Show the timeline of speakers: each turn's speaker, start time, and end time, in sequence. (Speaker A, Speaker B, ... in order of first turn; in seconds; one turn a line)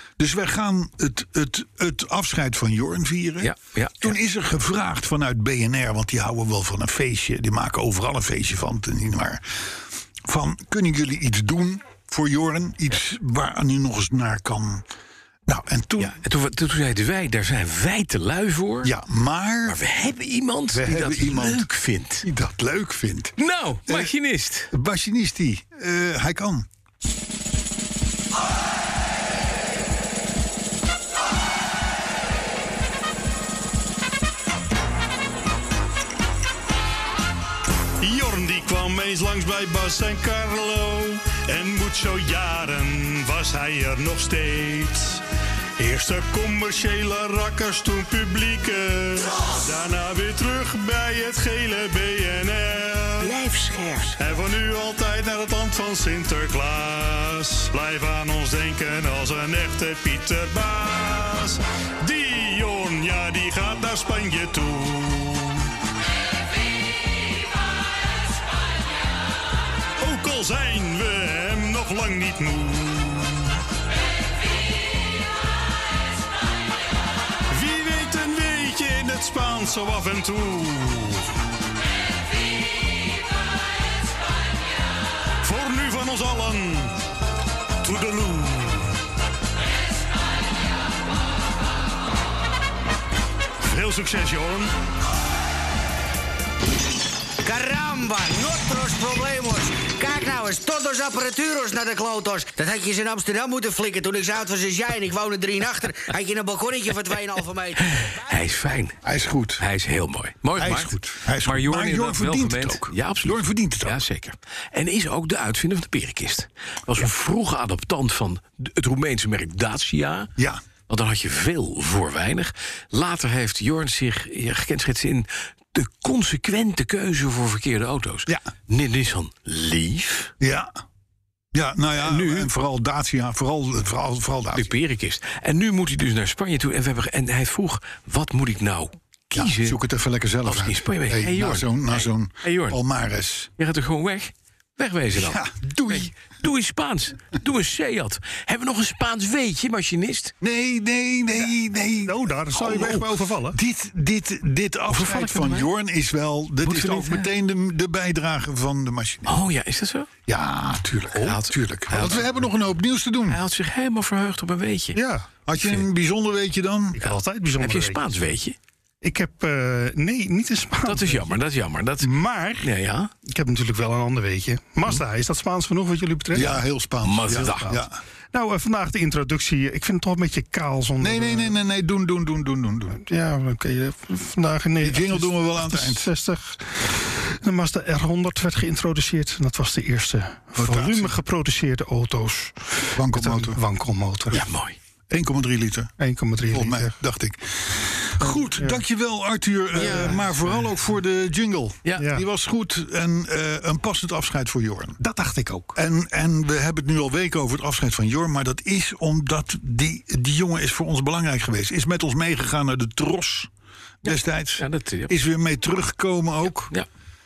Speaker A: 0.2-9.7
Speaker B: 3.4-4.2
Speaker A: 10.3-14.8
Speaker A: 15.5-16.2
Speaker B: 16.0-18.9
Speaker A: 18.8-19.8
Speaker B: 19.7-22.3
Speaker A: 20.7-21.7
Speaker A: 22.2-23.4
Speaker B: 23.4-24.7
Speaker A: 23.9-24.1
Speaker A: 24.7-26.7
Speaker C: 38.0-45.2
Speaker C: 45.8-53.4
Speaker B: 53.2-54.2
Speaker C: 54.2-65.7
Speaker C: 70.0-73.6
Speaker C: 77.5-81.3
Speaker C: 85.4-87.0
Speaker C: 87.8-88.9
Speaker C: 93.6-94.7
Speaker D: 97.4-108.2
Speaker B: 107.8-109.0
Speaker A: 109.0-109.6
Speaker B: 109.6-120.3
Speaker A: 110.6-114.0
Speaker A: 120.4-120.6
Speaker B: 120.9-130.3
Speaker A: 130.4-130.7
Speaker A: 131.5-134.7
Speaker B: 132.0-132.5
Speaker B: 134.5-139.8
Speaker A: 139.3-143.5
Speaker B: 140.4-142.8
Speaker B: 143.6-150.3
Speaker A: 145.1-146.1
Speaker A: 150.4-159.4
Speaker E: 152.1-153.6
Speaker B: 154.9-155.7
Speaker B: 156.6-157.3
Speaker B: 159.3-160.1
Speaker A: 160.3-163.4
Speaker B: 161.2-162.3
Speaker B: 163.3-165.0
Speaker E: 164.9-165.3
Speaker A: 165.5-167.1
Speaker B: 165.6-165.9
Speaker E: 167.0-168.0
Speaker B: 167.6-168.6
Speaker E: 169.0-171.3
Speaker B: 170.8-173.1
Speaker E: 172.0-172.7
Speaker E: 173.3-176.6
Speaker A: 176.3-178.0
Speaker B: 177.0-177.8
Speaker E: 177.3-177.8
Speaker E: 178.3-181.6
Speaker A: 181.0-183.0
Speaker E: 183.0-194.4
Speaker A: 184.8-186.1
Speaker A: 190.6-191.1
Speaker A: 192.9-193.6
Speaker B: 194.3-194.8
Speaker A: 195.1-195.9
Speaker E: 196.0-196.9
Speaker A: 196.5-205.0
Speaker E: 198.2-198.8
Speaker B: 199.8-200.3
Speaker E: 199.8-200.4
Speaker E: 202.0-202.2
Speaker E: 205.0-205.8
Speaker A: 205.8-213.5
Speaker A: 214.0-216.7
Speaker B: 214.0-215.2